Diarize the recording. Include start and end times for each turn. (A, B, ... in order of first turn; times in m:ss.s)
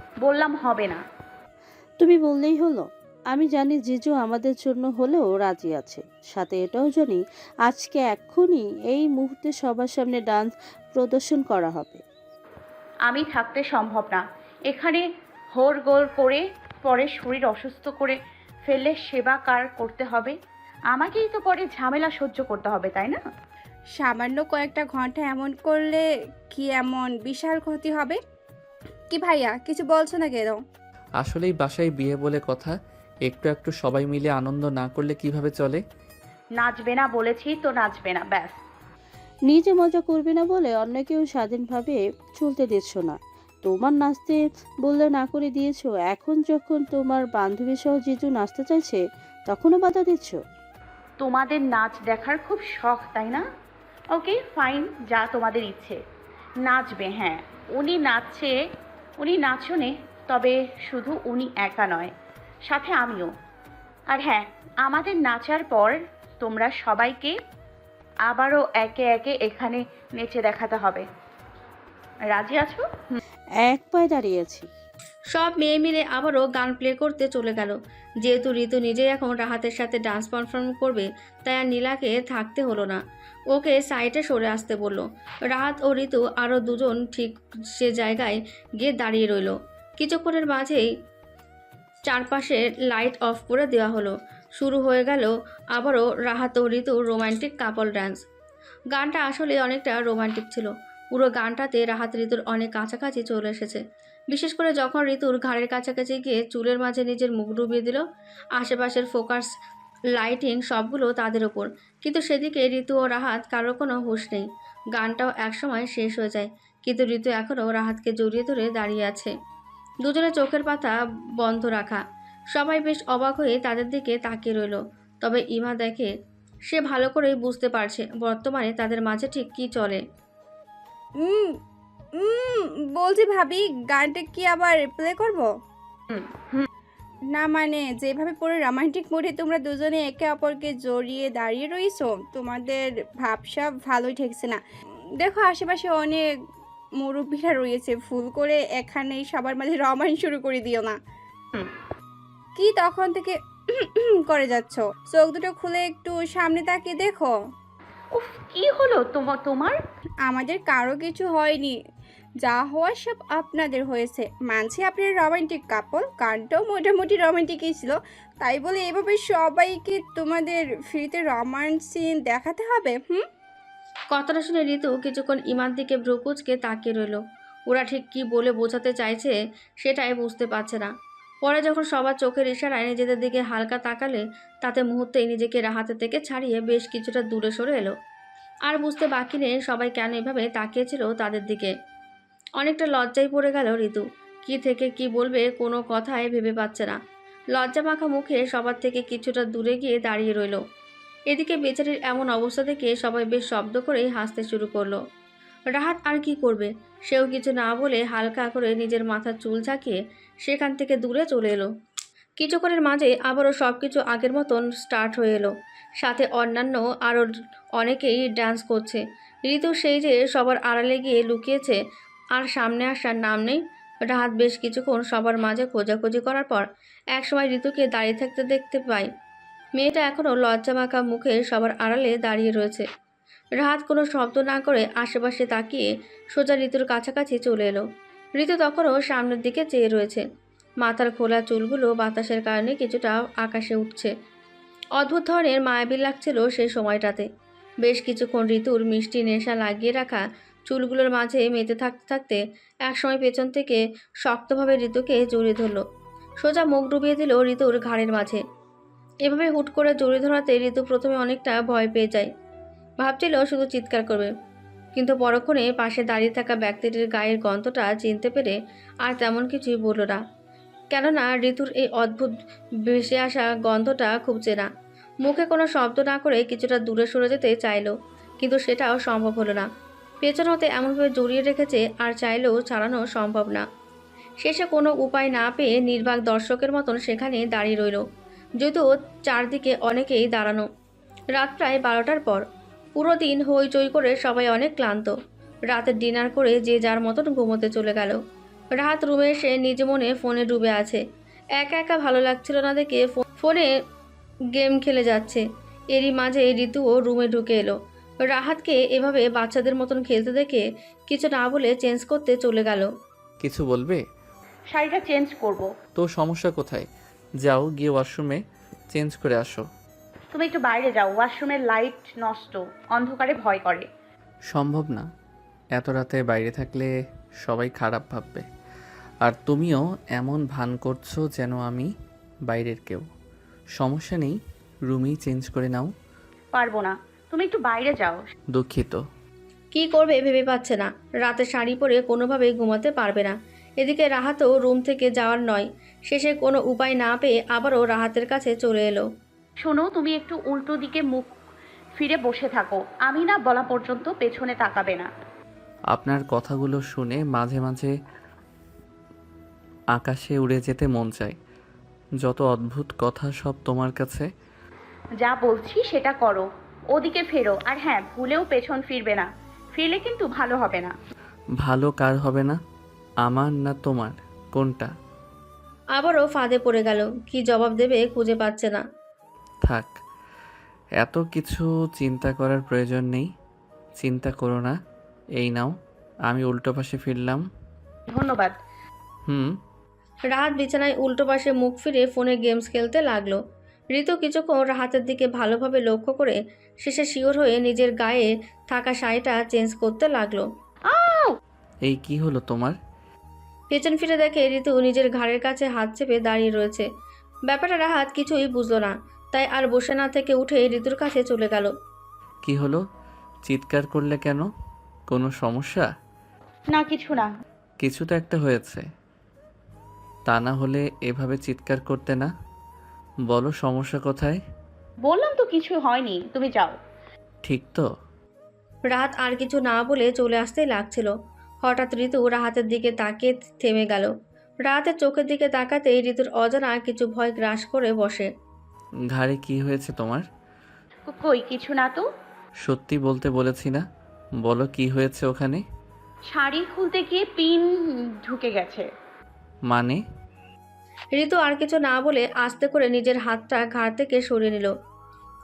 0:00.2-0:01.0 A
0:02.0-0:12.0 B
0:13.1-0:15.0 A
0:15.6-0:18.2 A
0:18.7-0:20.3 A
0:20.9-0:23.2 A
0:23.9-0:28.2 C
0:29.1-0:30.6 C
0:31.2-0:32.7 D
0:33.2-0:35.8 D
0:36.6-0:38.5 A
0:39.4-0:50.4 B
0:51.2-0:53.4 A
0:54.1-0:56.0 A
0:56.7-0:58.5 A
0:59.2-1:02.1 A
1:02.7-1:03.3 A
1:04.1-1:07.3 A
1:08.3-1:11.0 A
1:12.3-1:13.2 A
1:13.6-1:14.7 B
1:15.3-1:23.0 E
1:23.5-1:30.9 E
1:32.1-1:38.2 E
1:38.9-1:48.0 E
1:48.6-1:49.5 E
1:50.2-1:59.3 E
2:00.0-2:02.0 E
2:02.5-2:06.1 E
2:06.7-2:10.0 E
2:11.2-2:11.6 C
2:12.2-2:15.5 C
2:16.1-2:16.7 A
2:17.3-2:24.6 C
2:25.2-2:26.3 C
2:27.0-2:31.0 C
2:32.6-2:37.3 C
2:38.1-2:39.8 A
2:40.2-2:41.8 C
2:42.4-2:53.2 C
2:54.1-3:00.9 E
3:01.4-3:07.9 E
3:08.7-3:11.7 E
3:12.6-3:17.0 E
3:17.6-3:20.6 E
3:21.3-3:25.0 E
3:25.7-3:31.7 E
3:32.4-3:37.3 E
3:37.8-3:41.8 E
3:42.4-3:49.1 E
3:49.8-3:52.8 E
3:53.6-3:57.8 E
3:58.4-4:00.2 E
4:00.8-4:04.1 E
4:05.0-4:07.2 E
4:07.8-4:15.8 E
4:16.4-4:18.4 E
4:19.2-4:22.3 E
4:23.0-4:24.3 E
4:24.9-4:30.2 E
4:30.9-4:32.3 E
4:32.9-4:34.7 E
4:35.2-4:39.6 E
4:40.2-4:43.6 E
4:44.4-4:48.0 E
4:48.6-4:50.7 E
4:51.3-4:52.4 E
4:53.0-4:55.1 E
4:55.7-4:58.2 E
4:58.8-5:01.0 E
5:01.6-5:03.7 E
5:04.6-5:12.9 E
5:13.4-5:14.0 D
5:14.7-5:15.7 A
5:16.0-5:16.8 D
5:17.4-5:18.4 D
5:18.9-5:19.6 D
5:20.3-5:23.8 A
5:24.5-5:25.0 D
5:25.8-5:26.9 D
5:27.4-5:28.4 D
5:29.2-5:31.9 D
5:32.5-5:33.0 D
5:33.8-5:34.4 D
5:34.9-5:35.9 D
5:36.5-5:38.2 A
5:38.5-5:39.0 D
5:39.7-5:49.0 E
5:49.6-5:51.3 A
5:52.0-5:55.1 A
5:55.9-5:57.9 D
6:00.0-6:01.4 D
6:02.2-6:04.3 D
6:05.2-6:10.9 A
6:11.6-6:12.6 D
6:13.2-6:14.9 D
6:16.0-6:18.8 E
6:19.6-6:19.9 D
6:21.0-6:23.3 D
6:24.0-6:24.7 D
6:25.4-6:25.7 D
6:26.3-6:27.4 D
6:28.1-6:28.5 A
6:30.3-6:33.4 E
6:33.9-6:40.4 E
6:40.9-6:41.3 A
6:41.8-6:42.8 D
6:43.7-6:46.8 E
6:47.5-6:51.7 E
6:52.4-6:52.8 D
6:53.5-6:54.4 D
6:55.1-6:55.9 D
6:56.7-6:57.3 A
6:57.8-6:58.8 D
7:00.3-7:02.3 D
7:03.3-7:04.4 D
7:05.0-7:06.7 A
7:07.4-7:07.9 D
7:08.9-7:11.1 E
7:11.6-7:14.1 E
7:14.6-7:18.3 E
7:19.1-7:20.2 D
7:21.1-7:22.0 A
7:22.6-7:23.8 D
7:24.4-7:25.6 D
7:26.3-7:27.6 A
7:28.3-7:28.8 A
7:29.7-7:30.0 D
7:31.1-7:34.7 E